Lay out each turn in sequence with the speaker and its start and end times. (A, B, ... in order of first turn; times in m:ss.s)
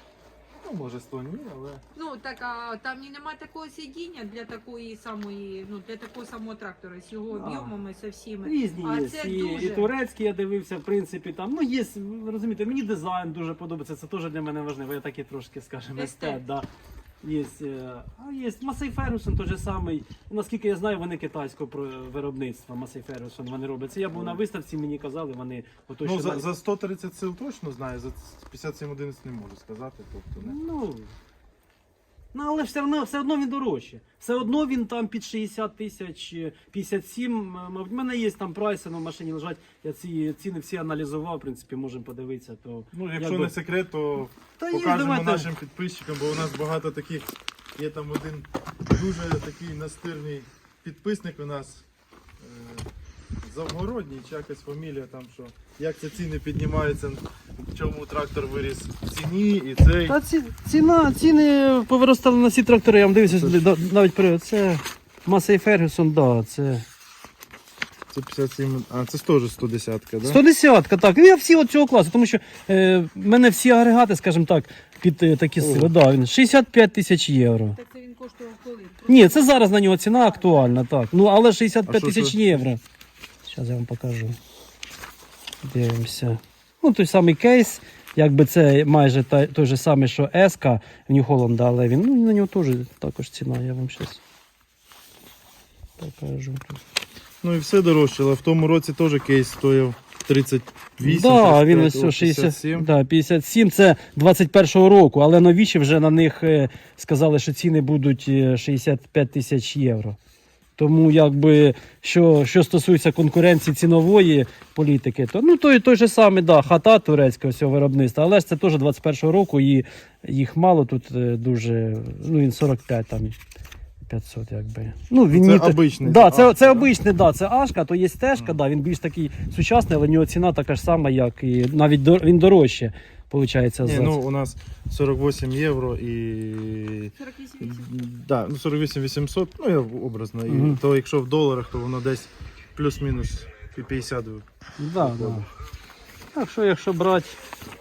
0:00.6-0:01.8 A
0:01.9-0:09.9 B
0:07.3-0:07.7 C
0:08.4-0:16.7 C
0:15.9-0:16.4 B
0:17.2-0:26.5 C
0:24.1-0:24.4 A
0:26.0-0:30.6 A
0:30.4-0:31.1 C
0:32.3-0:43.6 C
0:42.9-0:51.8 A
0:44.6-0:45.5 C
0:52.4-0:52.9 A
0:53.4-1:00.2 A
1:00.0-1:06.8 C
1:03.3-1:03.6 A
1:08.1-1:10.4 A
1:10.2-1:17.8 C
1:15.6-1:15.9 A
1:17.8-1:19.6 B
1:19.1-1:22.8 C
1:20.3-1:20.8 B
1:21.9-1:22.7 A
1:23.4-1:24.4 C
1:25.6-1:34.2 C
1:36.0-1:36.8 C
1:37.4-1:42.9 A
1:41.0-1:50.2 C
1:50.8-2:03.4 C
2:04.1-2:14.2 C
2:05.3-2:06.9 A
2:13.8-2:24.4 A
2:17.2-2:18.0 B
2:20.5-2:20.8 C
2:24.8-2:25.5 C
2:25.0-2:25.4 A
2:26.3-2:27.4 C